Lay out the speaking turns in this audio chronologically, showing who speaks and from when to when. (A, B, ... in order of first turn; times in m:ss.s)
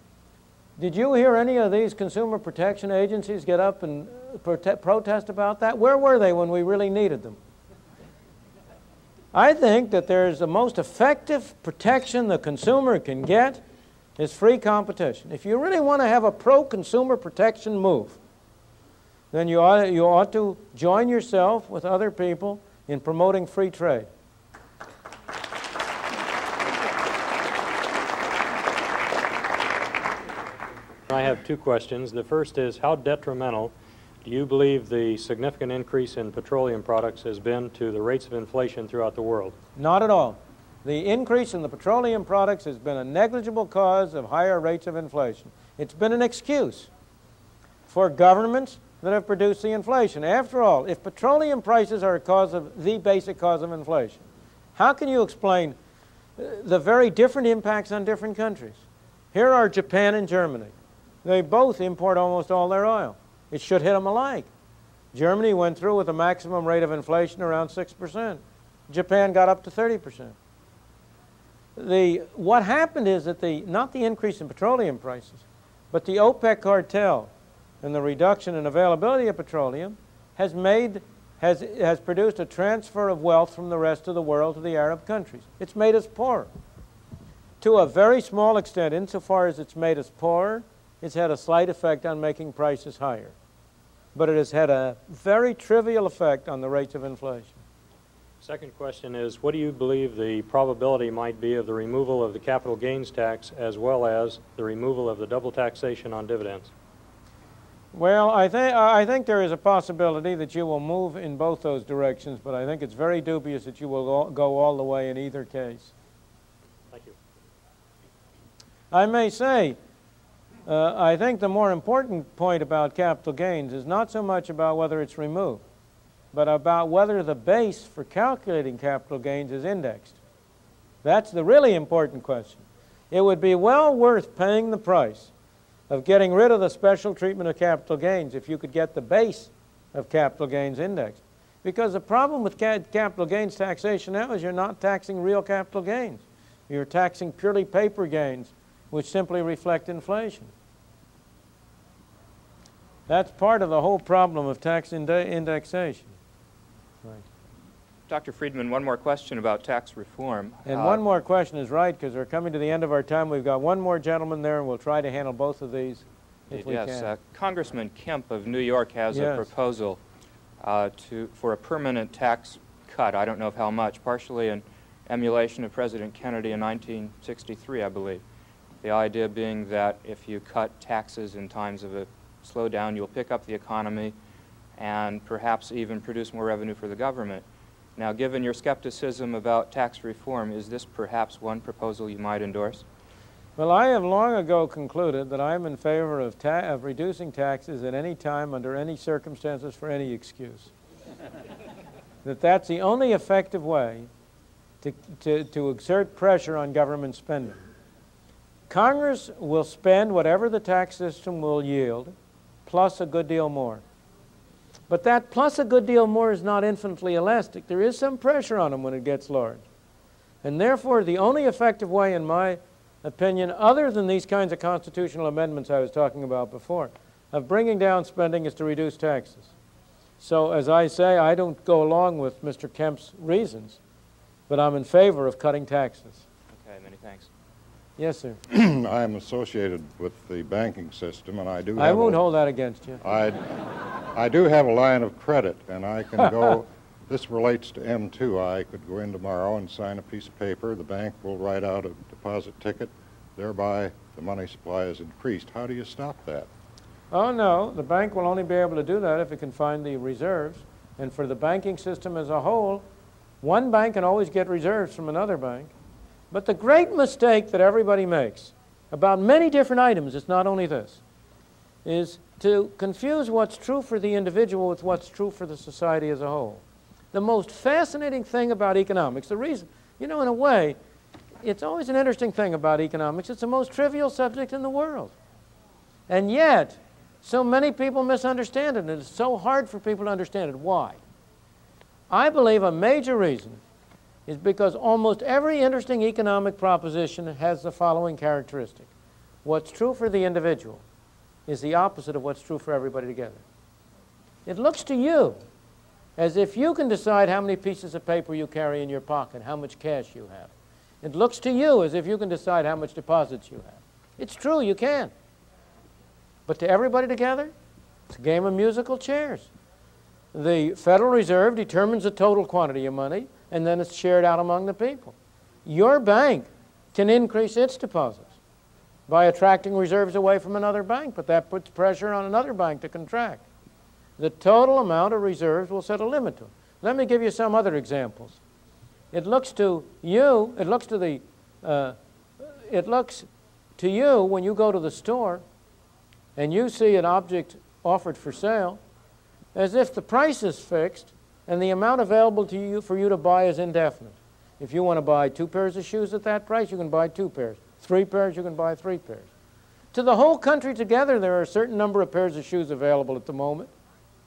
0:00.8-0:07.4 A
0:09.3-0:13.6 A
0:14.2-0:18.2 A
0:19.3-0:24.1 A
0:31.0-0:39.6 B
0:39.8-0:46.9 A
0:47.9-0:55.8 A
0:56.4-1:04.5 A
1:05.1-1:10.3 A
1:11.8-1:17.3 A
1:17.8-1:26.5 A
1:27.6-1:33.3 A
1:34.1-1:37.6 A
1:38.4-1:46.7 B
1:47.9-1:55.9 A
1:56.9-1:57.2 B
1:58.9-1:59.8 A
2:00.6-2:05.6 A
2:06.3-2:10.2 A
2:11.0-2:15.3 A
2:15.9-2:30.5 A
2:33.1-2:36.1 A
2:38.1-2:41.0 C
2:40.6-2:47.1 A
2:46.5-2:50.0 C
2:49.1-2:49.5 A
2:50.6-2:58.2 C
2:58.8-3:04.1 C
3:04.8-3:07.4 C
3:08.0-3:12.8 C
3:13.6-3:20.7 A
3:22.2-3:24.1 A
3:24.8-3:27.6 A
3:28.7-3:32.1 A
3:32.6-3:33.8 A
3:34.9-3:39.6 A
3:40.4-3:49.5 A
3:50.2-3:53.8 A
3:54.5-3:56.2 A
3:56.5-3:57.3 C
3:58.0-3:58.4 A
3:58.5-4:02.2 D
4:01.8-4:03.0 A
4:03.0-4:16.5 D
4:17.1-4:22.8 A
4:23.4-4:25.7 A
4:26.3-4:31.0 A
4:31.8-4:40.8 A
4:41.4-4:45.1 A
4:46.1-4:51.0 A
4:52.1-4:53.6 A
4:54.3-4:58.9 A
4:59.4-5:00.8 A
5:01.5-5:03.4 A
5:04.4-5:05.4 A
5:06.2-5:15.1 A
5:16.5-5:17.5 A
5:18.1-5:19.5 A
5:20.3-5:25.1 A
5:25.6-5:28.3 A
5:29.1-5:33.4 A
5:34.2-5:38.4 A
5:39.1-5:45.4 A
5:46.4-5:48.8 A
5:49.5-5:59.3 A
5:59.9-6:03.7 A